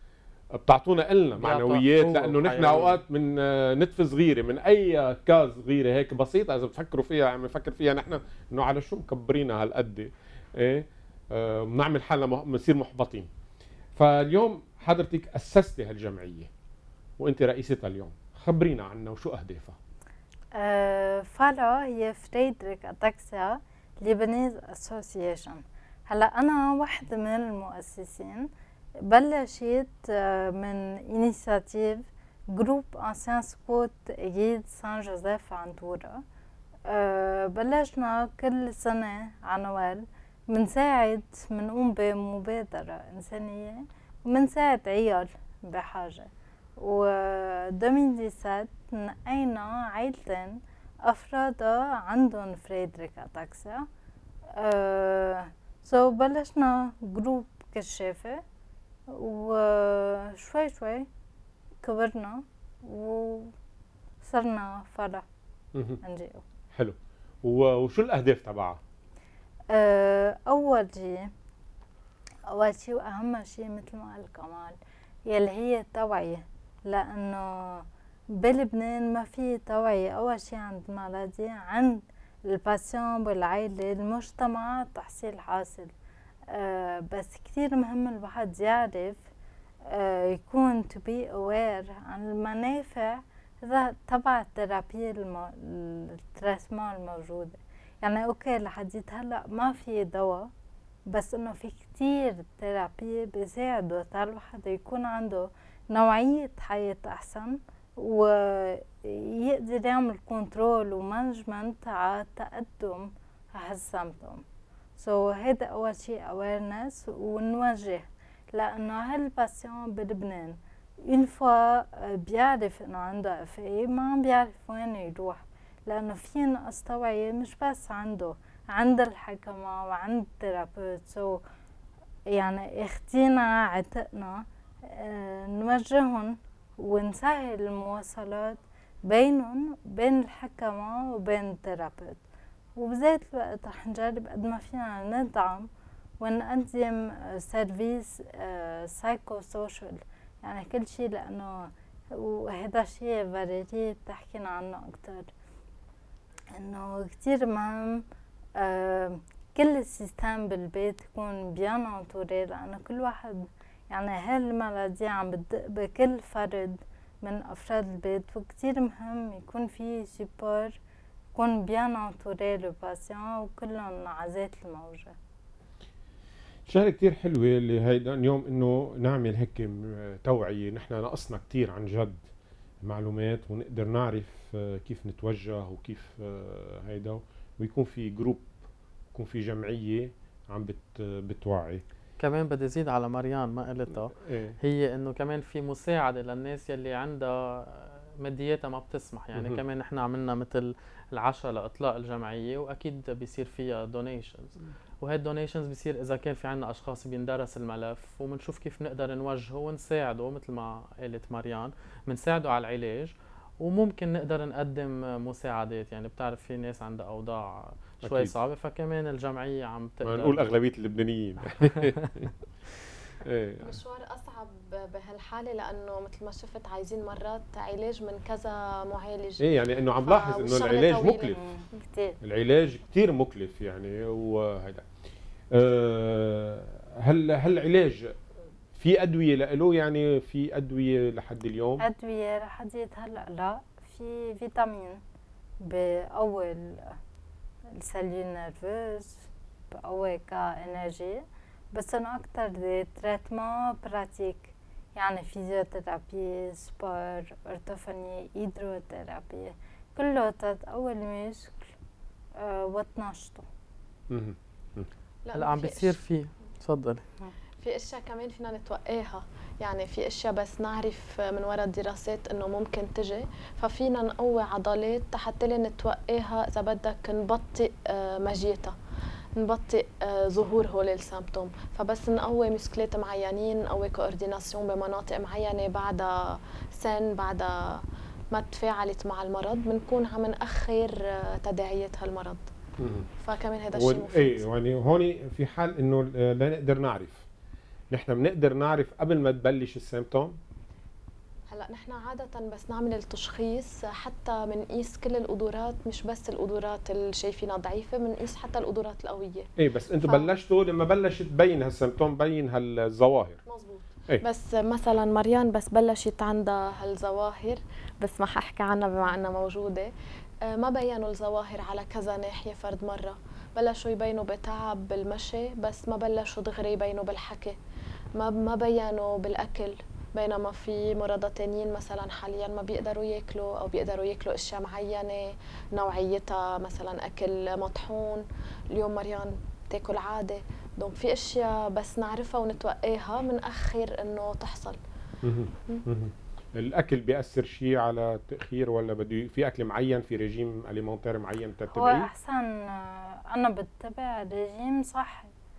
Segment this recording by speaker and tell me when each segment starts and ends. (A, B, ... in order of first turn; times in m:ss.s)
0:00.5-0:13.3 A
0:01.4-0:03.0 B
0:14.0-0:16.5 A
0:17.2-0:19.8 A
0:20.5-0:28.5 C
0:29.0-0:36.2 C
0:36.9-0:53.9 C
0:54.6-0:58.4 C
0:59.1-1:01.1 C
1:01.8-1:03.5 C
1:04.2-1:05.2 C
1:05.8-1:06.0 A
1:06.0-1:06.4 C
1:06.7-1:08.8 A
1:09.7-1:11.3 C
1:12.5-1:25.9 C
1:26.5-1:29.2 C
1:29.9-1:40.5 C
1:41.1-1:54.4 C
1:55.0-2:11.4 C
2:12.3-2:22.2 C
2:22.8-2:25.7 C
2:26.2-2:35.3 C
2:36.5-2:38.0 C
2:38.6-2:50.8 C
2:51.3-2:55.2 C
2:56.7-3:02.2 A
3:02.8-3:08.5 A
3:09.1-3:11.8 A
3:12.2-3:40.4 B
3:14.2-3:14.6 A
3:19.3-3:19.6 A
3:38.0-3:38.3 A
3:40.0-3:42.3 A
3:43.2-3:43.8 A
3:43.6-3:49.4 D
3:49.4-3:51.4 A
3:50.0-3:51.4 D
3:51.3-3:52.2 C
3:52.2-3:54.8 A
3:55.5-3:58.1 A
3:58.8-4:01.8 A
4:01.8-4:05.0 C
4:05.6-4:07.0 C
4:07.7-4:21.7 C
4:22.3-4:23.5 C
4:24.1-4:24.9 A
4:25.2-4:26.0 D
4:25.3-4:27.0 B
4:27.6-4:38.8 D
4:39.4-4:52.4 D
4:52.8-4:53.1 A
4:53.2-4:54.4 D
4:53.7-4:57.2 A
4:57.9-5:00.4 A
5:01.5-5:09.5 D
5:09.6-5:13.4 A
5:10.0-5:10.3 D
5:13.4-5:19.9 D
5:20.4-5:27.6 D
5:28.1-5:44.8 D
5:45.2-5:52.1 A
5:51.7-5:55.3 C